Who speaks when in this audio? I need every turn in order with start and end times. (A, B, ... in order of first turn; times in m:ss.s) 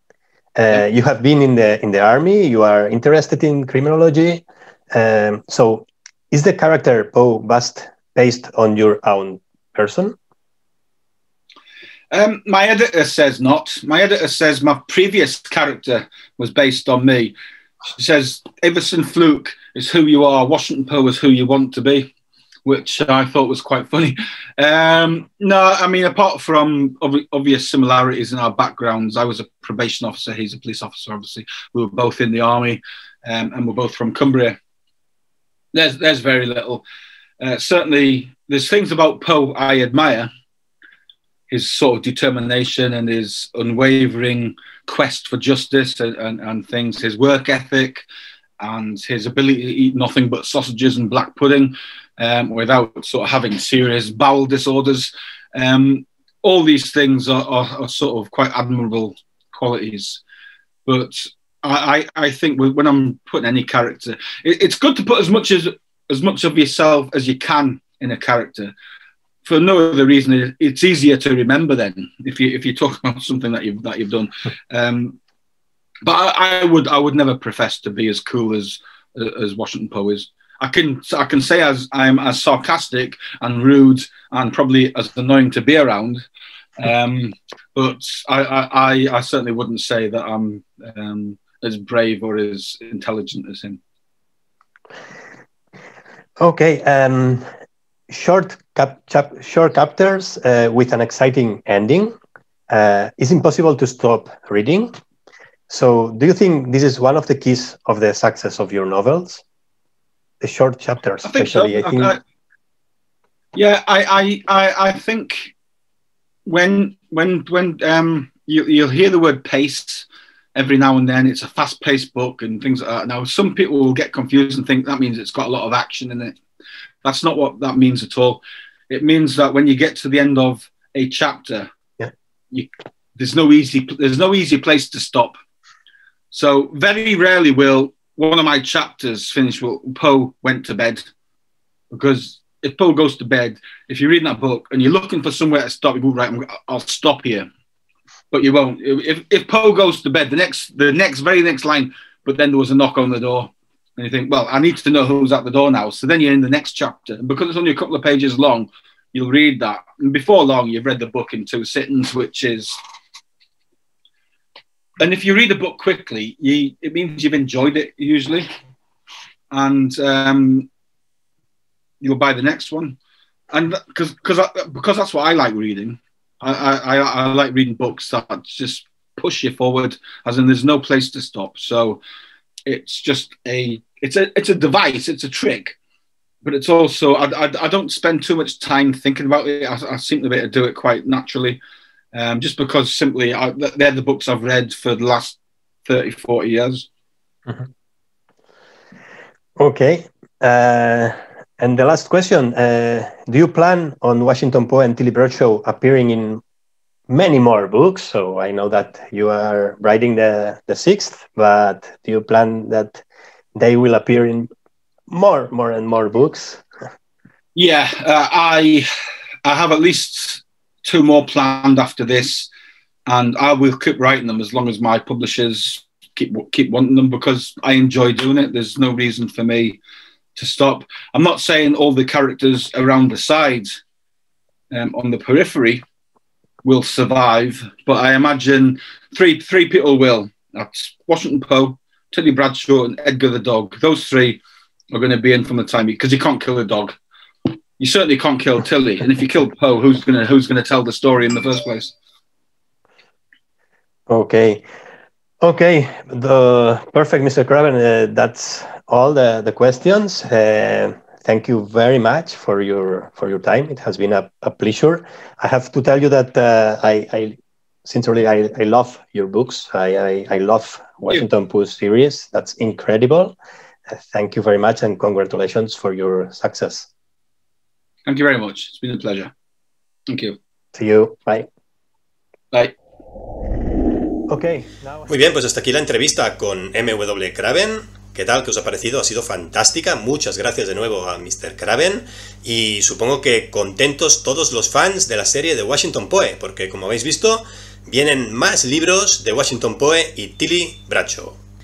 0:00.6-0:10.2 A
0:12.1-0:17.4 B
0:17.9-0:22.1 B
0:22.7-0:34.6 B
0:35.7-0:36.8 B
0:37.4-0:40.3 B
0:41.5-0:48.0 B
0:48.6-1:00.2 B
1:00.9-1:08.7 B
1:09.4-1:15.2 B
1:16.0-1:26.2 B
1:26.8-1:33.8 B
1:36.4-1:37.5 A
1:38.1-1:42.2 A
1:42.7-1:44.9 A
1:45.7-1:49.4 A
1:50.4-1:52.1 A
1:51.2-1:52.2 B
1:53.6-1:55.5 B
1:56.5-2:06.4 B
2:07.0-2:11.7 B
2:12.5-2:15.4 B
2:16.3-2:21.1 B
2:21.9-2:27.5 B
2:28.3-2:42.8 B
2:45.0-2:48.5 B
2:49.5-2:50.7 B
2:52.0-2:53.0 B
2:53.5-3:02.0 B
3:02.7-3:05.8 B
3:06.4-3:11.6 B
3:12.1-3:16.9 B
3:19.6-3:26.4 A
3:27.1-3:33.0 A
3:33.6-3:34.5 A
3:35.1-3:36.6 A
3:37.6-3:38.9 B
3:39.4-3:42.5 B
3:43.1-3:49.8 B
3:50.4-3:53.8 B
3:54.7-3:55.8 B
3:56.6-4:04.4 B
4:04.9-4:07.0 B
4:07.8-4:11.9 B
4:14.1-4:14.6 A
4:15.4-4:33.4 A
4:33.9-4:36.9 A
4:38.1-4:39.3 B
4:40.1-4:40.4 B
4:40.7-4:41.5 A
4:42.5-4:42.8 B
4:44.3-4:45.1 A
4:45.1-5:01.4 C